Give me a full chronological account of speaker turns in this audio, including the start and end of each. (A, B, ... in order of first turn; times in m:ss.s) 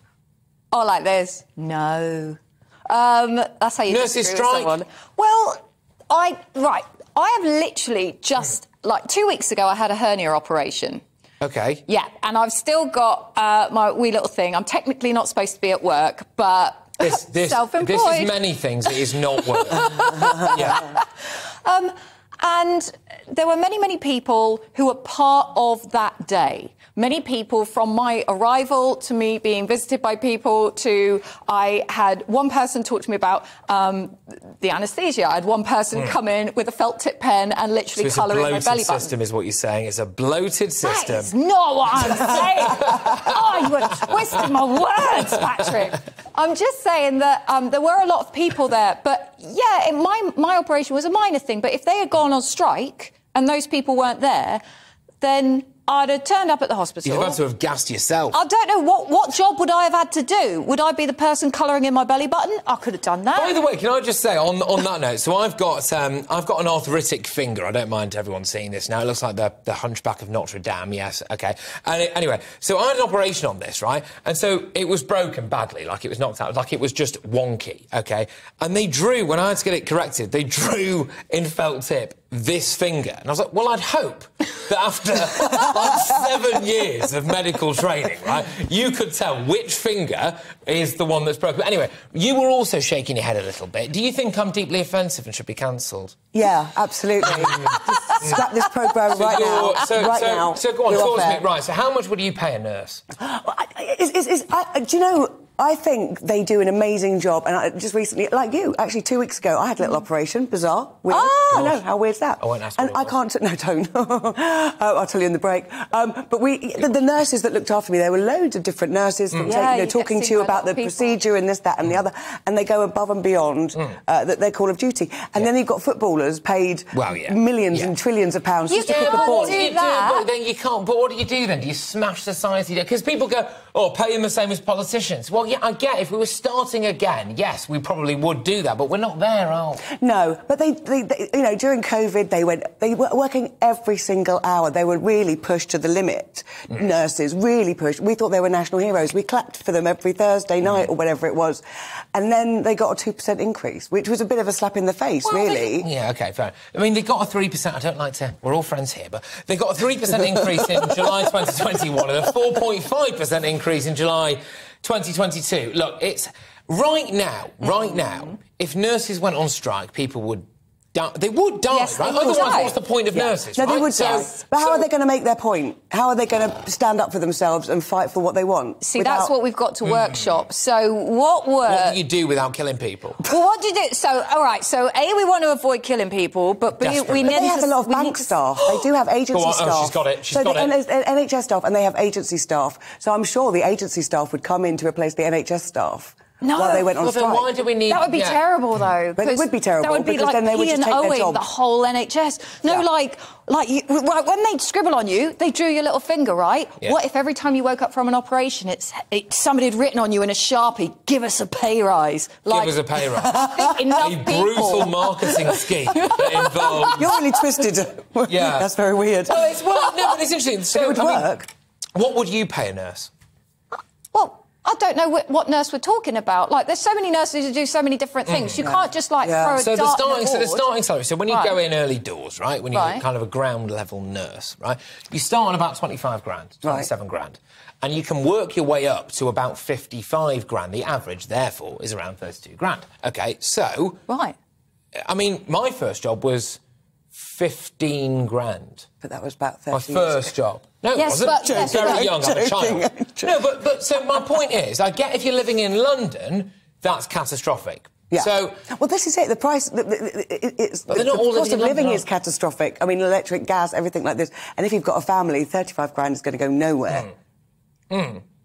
0:00.7-0:11.0 A
0:03.9-0:04.8 B
0:11.4-0:11.8 B
0:11.9-0:19.0 A
0:17.0-0:20.9 B
0:19.5-0:21.1 A
0:21.6-0:39.1 A
0:38.0-0:41.3 B
0:40.8-0:54.6 A
0:41.9-0:44.4 B
0:55.2-0:57.4 A
0:57.0-0:58.4 B
0:58.3-1:03.6 A
1:03.3-1:36.2 B
1:36.3-1:41.4 C
1:37.3-1:38.4 B
1:39.1-1:43.0 B
1:43.2-2:09.6 C
1:51.1-1:51.5 A
1:51.5-1:51.8 B
1:52.4-1:53.1 B
1:59.3-1:59.6 B
1:59.4-2:01.2 A
2:06.9-2:07.9 B
2:08.7-2:10.3 A
2:08.8-2:19.8 B
2:19.9-2:31.6 C
2:32.1-2:35.9 C
2:35.2-2:35.7 A
2:35.8-2:54.9 B
2:47.8-2:48.1 A
2:51.7-2:52.8 A
2:53.1-2:59.3 C
2:54.0-2:54.3 A
2:58.8-3:02.0 A
2:59.8-3:00.4 B
3:01.7-3:03.2 B
3:03.2-3:08.8 A
3:06.8-3:07.5 B
3:07.2-3:17.5 C
3:09.3-3:10.7 B
3:16.4-3:16.9 A
3:17.0-3:18.4 B
3:17.9-3:37.3 A
3:19.2-3:21.4 C
3:32.5-3:37.1 B
3:36.8-3:39.6 C
3:38.3-3:38.7 B
3:39.3-3:41.4 B
3:40.7-3:41.5 C
3:41.9-3:43.1 B
3:44.1-3:50.6 A
3:48.2-3:48.7 B
3:48.6-3:49.6 C
3:49.6-4:04.0 B
3:51.3-3:51.6 A
3:52.7-3:53.0 A
3:56.6-3:56.9 C
4:04.1-4:04.4 A
4:05.0-4:06.6 B
4:07.1-4:08.9 B
4:09.0-4:10.3 C
4:09.7-4:18.6 B
4:10.9-4:12.1 A
4:11.3-4:13.4 C
4:18.1-4:27.1 C
4:20.9-4:22.0 B
4:27.9-4:28.2 B